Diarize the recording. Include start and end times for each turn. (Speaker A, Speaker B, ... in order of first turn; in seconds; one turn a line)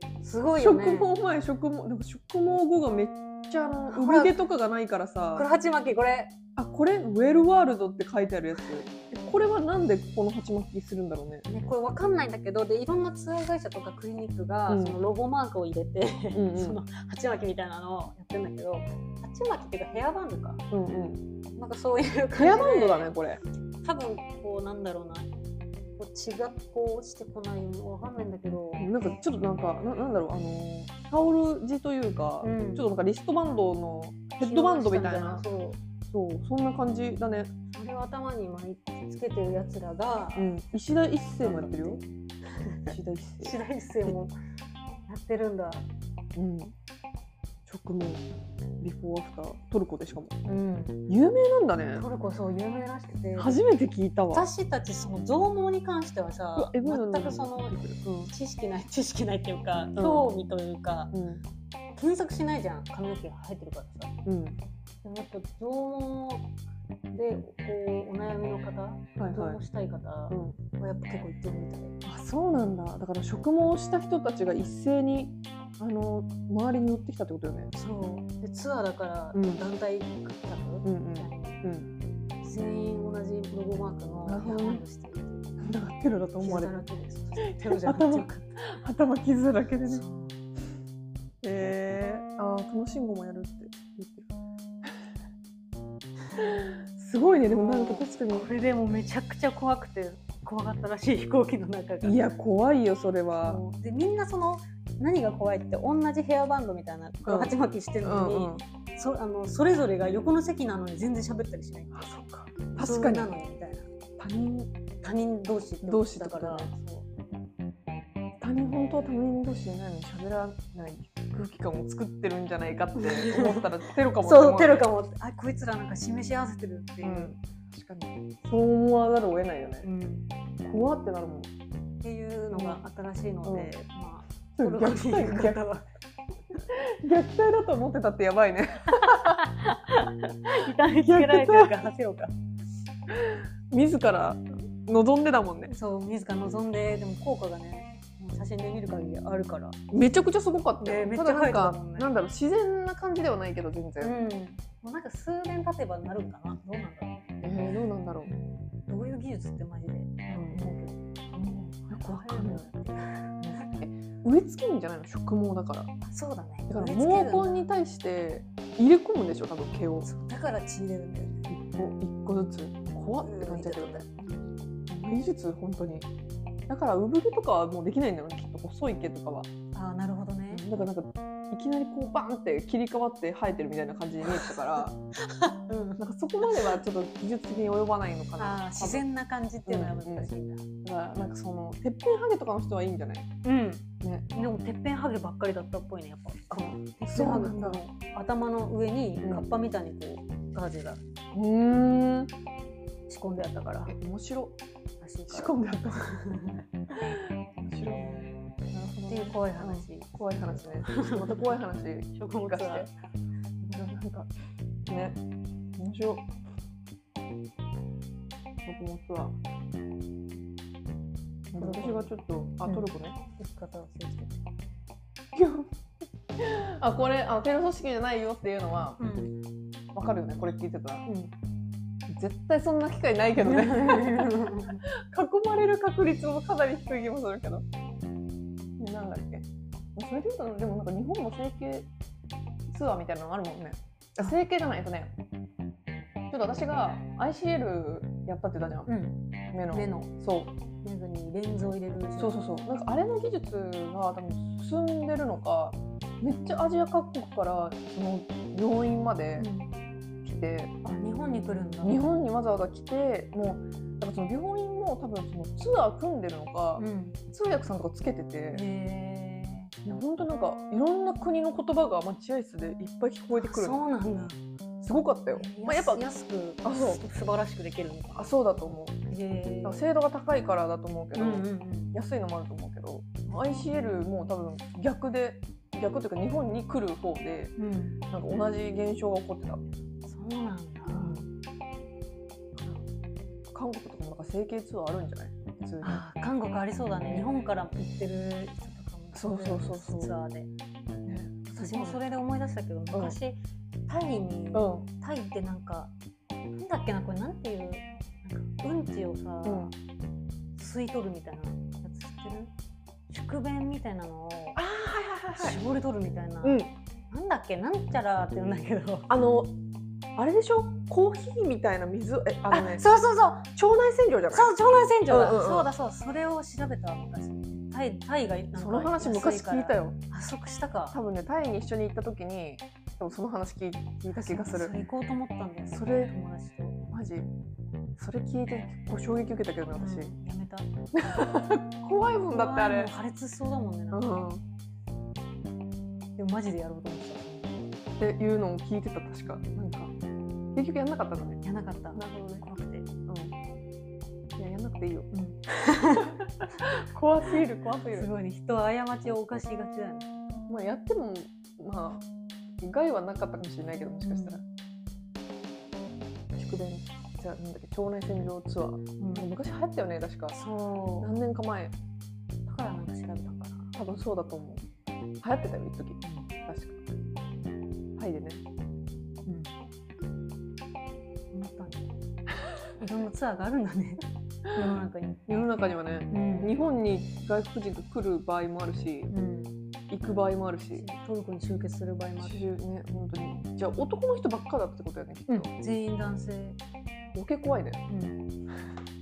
Speaker A: 0.2-1.1
Speaker B: 0.5-5.5
Speaker A: 3.9-4.4
Speaker A: 5.3-6.3
Speaker B: 6.6-11.4
Speaker A: 11.5-20.6
Speaker B: 14.7-15.0
Speaker B: 16.3-16.8
Speaker B: 20.7-21.3
Speaker A: 21.6-23.1
Speaker B: 22.4-23.4
Speaker A: 23.8-25.3
Speaker A: 26.0-28.9
Speaker B: 28.8-35.5
Speaker A: 32.4-32.9
Speaker A: 34.4-35.8
Speaker B: 36.1-37.5
Speaker A: 37.7-40.5
Speaker B: 40.4-42.0
Speaker A: 41.4-44.3
Speaker B: 42.9-44.2
Speaker A: 45.1-45.9
Speaker B: 46.4-46.7
Speaker B: 47.7-48.2
Speaker B: 48.8-50.4
Speaker A: 50.4-51.0
Speaker B: 51.1-52.1
Speaker A: 52.0-53.6
Speaker B: 53.4-54.5
Speaker A: 54.3-61.1
Speaker B: 56.6-58.3
Speaker B: 60.0-60.3
Speaker B: 61.1-61.5
Speaker A: 62.0-64.1
Speaker B: 64.2-64.6
Speaker A: 65.0-66.5
Speaker A: 67.1-72.0
Speaker B: 69.2-69.6
Speaker B: 70.3-70.6
Speaker B: 72.0-77.7
Speaker A: 77.7-81.6
Speaker B: 79.3-79.6
Speaker B: 80.8-81.9
Speaker A: 82.4-85.6
Speaker B: 84.2-84.8
Speaker B: 85.6-86.8
Speaker A: 86.4-88.5
Speaker B: 87.4-90.0
Speaker A: 89.9-90.4
Speaker B: 91.4-94.3
Speaker B: 96.4-98.5
Speaker A: 97.4-102.2
Speaker B: 102.0-103.6
Speaker A: 103.4-112.1
Speaker B: 107.2-107.5
Speaker B: 108.0-108.6
Speaker B: 111.9-113.3
Speaker A: 112.8-113.9
Speaker B: 114.2-114.7
Speaker A: 115.0-117.0
Speaker B: 115.8-116.7
Speaker B: 118.4-124.9
Speaker A: 123.0-123.7
Speaker A: 124.2-127.3
Speaker B: 127.0-129.9
Speaker A: 129.8-130.3
Speaker B: 130.6-131.5
Speaker A: 132.0-135.9
Speaker B: 132.5-132.8
Speaker B: 133.4-133.7
Speaker B: 134.6-135.6
Speaker B: 136.7-139.4
Speaker A: 138.9-142.3
Speaker B: 140.7-141.9
Speaker B: 143.1-145.7
Speaker A: 145.7-149.8
Speaker B: 149.9-154.2
Speaker A: 150.8-152.1
Speaker A: 154.0-157.2
Speaker B: 157.4-158.3
Speaker A: 158.3-161.0
Speaker B: 160.3-160.7
Speaker B: 161.3-162.7
Speaker A: 161.9-163.7
Speaker B: 163.4-165.9
Speaker A: 166.1-167.7
Speaker B: 166.7-170.1
Speaker A: 170.0-171.5
Speaker B: 171.5-174.1
Speaker A: 173.2-174.5
Speaker B: 174.9-176.1
Speaker B: 176.7-179.5
Speaker A: 179.7-180.7
Speaker B: 180.5-185.0
Speaker A: 184.3-184.6
Speaker A: 185.2-186.7
Speaker B: 186.0-189.0
Speaker A: 188.4-190.7
Speaker B: 189.7-190.3
Speaker B: 190.8-193.3
Speaker A: 193.4-201.0
Speaker B: 194.0-194.3
Speaker B: 196.5-197.8
Speaker B: 201.3-202.3
Speaker A: 203.1-204.0
Speaker B: 203.9-204.6
Speaker A: 205.0-206.6
Speaker B: 205.3-206.1
Speaker B: 206.9-212.9
Speaker A: 209.1-211.6
Speaker A: 212.2-212.9
Speaker B: 213.6-214.3
Speaker B: 214.9-215.2
Speaker B: 215.8-216.3
Speaker B: 218.7-219.4
Speaker B: 221.5-223.2
Speaker A: 221.6-222.1
Speaker A: 222.6-224.4
Speaker B: 225.3-225.7
Speaker B: 226.4-229.0
Speaker A: 229.0-229.4
Speaker B: 229.9-231.1
Speaker A: 231.1-231.3
Speaker B: 232.1-237.7
Speaker A: 233.4-234.8
Speaker B: 238.8-241.9
Speaker B: 242.7-245.1
Speaker B: 246.3-248.9
Speaker A: 248.9-249.2
Speaker B: 249.5-250.6
Speaker A: 249.7-250.1
Speaker A: 250.8-252.4
Speaker B: 252.2-259.5
Speaker A: 259.4-259.7
Speaker B: 260.2-260.8
Speaker A: 260.8-262.0
Speaker B: 261.8-268.6
Speaker A: 266.8-267.2
Speaker A: 268.5-269.7
Speaker B: 269.9-273.8
Speaker A: 273.3-274.4
Speaker B: 274.8-276.0
Speaker A: 275.3-278.3
Speaker B: 276.6-277.0
Speaker B: 278.1-279.0
Speaker A: 279.1-279.9
Speaker B: 279.6-287.5
Speaker A: 281.1-281.9
Speaker A: 287.6-288.0
Speaker B: 288.1-289.6
Speaker A: 290.1-291.2
Speaker B: 290.9-291.3
Speaker B: 292.6-292.8
Speaker B: 293.5-296.0
Speaker A: 295.8-300.5
Speaker B: 299.1-300.1
Speaker B: 301.1-302.0
Speaker A: 301.6-305.9
Speaker B: 304.5-304.9
Speaker A: 306.5-309.8
Speaker B: 309.4-309.7
Speaker A: 310.6-312.5
Speaker A: 313.1-314.6
Speaker B: 314.6-315.6
Speaker A: 315.4-319.1
Speaker B: 316.4-316.7
Speaker B: 319.1-319.5
Speaker B: 320.2-322.9
Speaker A: 322.5-323.5
Speaker B: 323.6-324.5
Speaker A: 324.3-331.0
Speaker B: 325.1-325.7
Speaker B: 328.6-330.0
Speaker B: 330.9-334.7
Speaker A: 334.1-336.8
Speaker B: 335.7-336.1
Speaker B: 336.9-337.3
Speaker B: 338.0-340.1
Speaker A: 339.7-341.4
Speaker B: 341.0-342.9
Speaker A: 342.3-344.2
Speaker B: 343.9-344.4
Speaker A: 346.2-347.7
Speaker B: 348.0-349.9
Speaker B: 350.5-351.4
Speaker A: 351.4-352.9
Speaker B: 351.9-352.5
Speaker B: 353.1-353.4
Speaker B: 354.4-355.1
Speaker A: 355.1-356.6
Speaker B: 356.0-358.1
Speaker A: 357.9-360.1
Speaker B: 360.5-362.1
Speaker B: 362.6-364.4
Speaker A: 364.0-364.4
Speaker B: 366.4-370.4
Speaker A: 369.0-369.3
Speaker A: 370.3-371.1
Speaker B: 371.0-371.7
Speaker A: 372.5-373.7
Speaker B: 373.8-374.7
Speaker B: 375.2-376.8
Speaker A: 376.1-376.3
Speaker B: 378.0-378.4
Speaker A: 379.3-379.5
Speaker A: 381.3-381.9
Speaker A: 382.8-385.3
Speaker B: 385.3-389.1
Speaker A: 386.1-386.5
Speaker A: 389.1-389.6
Speaker B: 389.9-390.9
Speaker A: 390.7-392.4
Speaker B: 392.2-395.5
Speaker A: 395.3-396.6
Speaker B: 397.1-397.8
Speaker A: 397.9-398.2